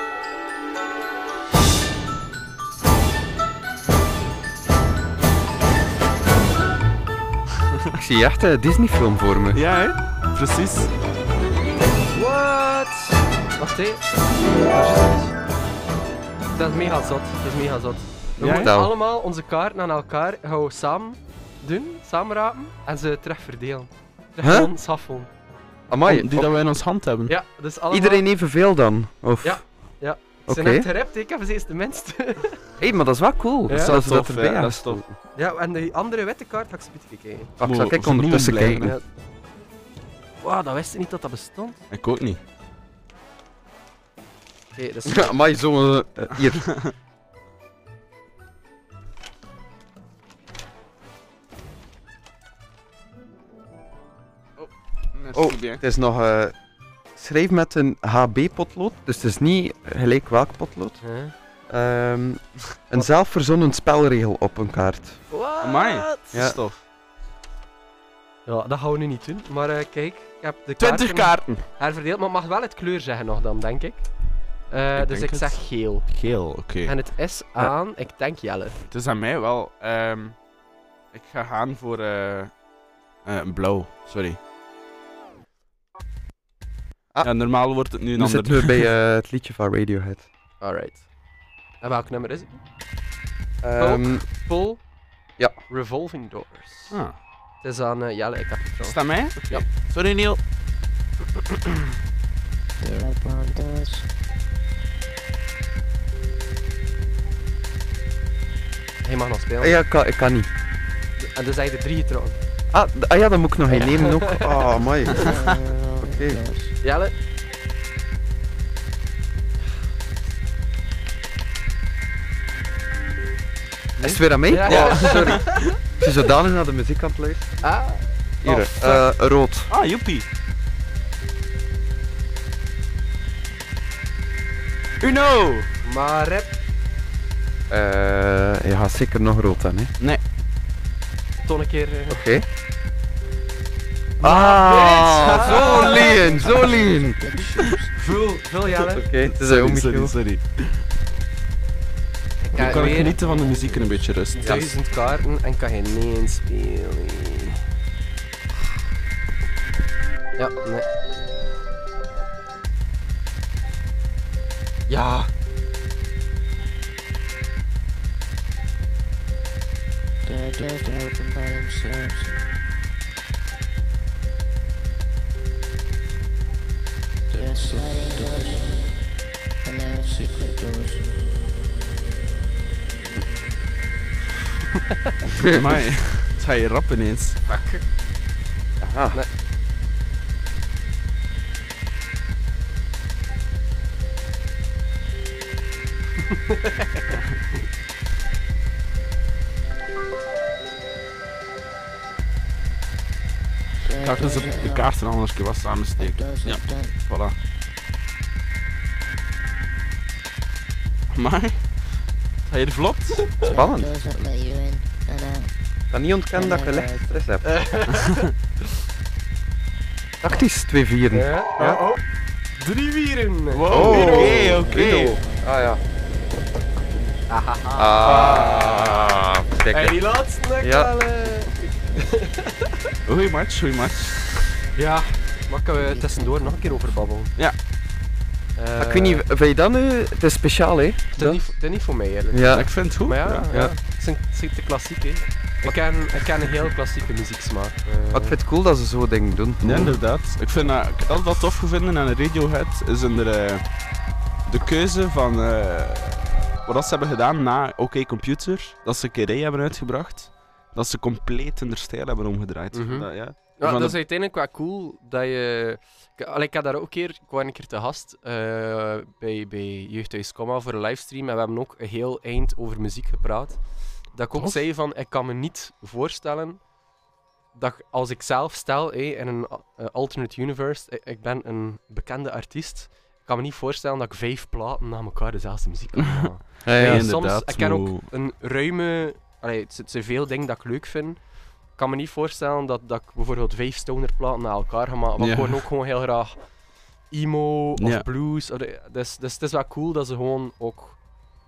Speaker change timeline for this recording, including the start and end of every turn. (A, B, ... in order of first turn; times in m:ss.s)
0:08.0-0:09.6 A
0:09.5-0:10.9 B
0:12.1-0:14.0 C
0:14.6-0:15.3 C
0:16.5-0:25.3 C
0:18.4-0:18.7 B
0:18.6-0:18.9 A
0:24.4-0:24.7 A
0:25.9-0:26.5 A
0:26.0-0:27.3 B
0:27.3-0:28.2 C
0:27.9-0:29.6 A
0:29.4-0:32.6 C
0:30.5-0:30.9 A
0:32.8-0:35.2 A
0:33.7-0:33.9 C
0:33.7-0:35.0 B
0:35.4-0:37.5 C
0:37.6-0:38.9 A
0:37.6-0:38.9 B
0:38.7-0:39.0 C
0:40.4-0:41.8 C
0:41.9-0:42.4 B
0:44.7-0:45.3 C
0:45.0-0:46.7 A
0:46.6-0:46.9 B
0:54.6-0:55.8 B
0:55.3-0:56.5 A
0:57.1-1:01.0 A
1:01.0-1:01.3 C
1:01.7-1:05.2 A
1:05.3-1:06.3 C
1:05.6-1:06.8 B
1:06.3-1:06.6 A
1:08.4-1:14.1 C
1:10.8-1:11.6 B
1:14.7-1:16.1 C
1:14.9-1:17.0 B
1:16.8-1:18.8 C
1:18.9-1:20.4 B
1:21.1-1:22.5 B
1:23.2-1:24.4 B
1:27.2-1:28.9 B
1:28.1-1:30.3 A
1:30.6-1:31.0 C
1:31.8-1:32.6 C
1:33.6-1:34.2 A
1:33.8-1:34.8 C
1:35.7-1:37.0 C
1:36.9-1:37.2 B
1:37.6-1:39.6 C
1:38.9-1:40.4 B
1:42.8-1:44.0 D
1:49.0-1:49.8 C
1:49.6-1:50.5 A
1:51.2-1:52.4 C
1:52.7-1:56.4 A
1:53.7-1:55.3 C
1:55.1-1:56.7 D
1:56.8-1:57.1 C
2:04.0-2:05.6 C
2:04.0-2:07.6 A
2:04.6-2:05.7 B
2:07.6-2:09.0 C
2:08.4-2:09.7 A
2:09.7-2:10.2 B
2:15.0-2:15.7 B
2:15.8-2:16.5 C
2:17.7-2:19.9 A
2:21.4-2:22.2 C
2:22.1-2:22.4 A
2:24.2-2:26.8 C
2:24.2-2:27.2 A
2:25.4-2:28.0 D
2:27.9-2:29.1 C
2:28.9-2:30.1 A
2:29.1-2:30.8 B
2:32.4-2:33.2 C
2:32.5-2:34.6 B
2:32.6-2:33.8 D
2:34.3-2:37.6 C
2:34.4-2:34.7 A
2:40.4-2:40.8 C
2:44.9-2:45.3 C
2:50.2-2:52.4 D
2:57.3-2:58.9 D
2:59.6-3:01.1 D
3:04.8-3:05.1 C
3:05.4-3:07.4 B
3:07.4-3:07.8 C
3:08.8-3:09.2 A
3:16.2-3:17.2 C
3:23.8-3:24.9 D
3:23.9-3:27.3 B
3:26.0-3:26.9 D
3:31.1-3:31.7 B
3:32.4-3:33.3 B
3:33.4-3:35.5 D
3:33.5-3:34.0 A
3:35.9-3:37.6 A
3:36.3-3:37.0 D
3:37.4-3:38.2 C
3:37.9-3:38.3 B
3:40.2-3:41.8 A
3:41.1-3:42.0 C
3:42.6-3:44.7 C
3:43.5-3:45.2 B
3:43.7-3:45.8 A
3:47.3-3:48.6 C
3:47.7-3:50.0 A
3:48.0-3:48.9 B
3:49.7-3:52.8 C
3:50.6-3:50.9 A
3:53.0-3:54.5 B
3:54.7-3:57.3 C
3:58.6-3:59.2 C
3:58.8-4:01.4 A
4:01.1-4:08.4 C
4:02.3-4:02.7 A
4:02.5-4:03.5 B
4:08.1-4:10.0 A
4:09.6-4:13.6 B
4:14.5-4:24.0 B
4:22.7-4:36.6 C
4:37.5-4:51.2 C
4:46.0-4:48.0 B
4:46.6-4:47.0 A
4:51.7-4:56.4 C
4:55.2-4:55.6 B
4:57.1-5:01.0 C
4:57.8-4:58.0 B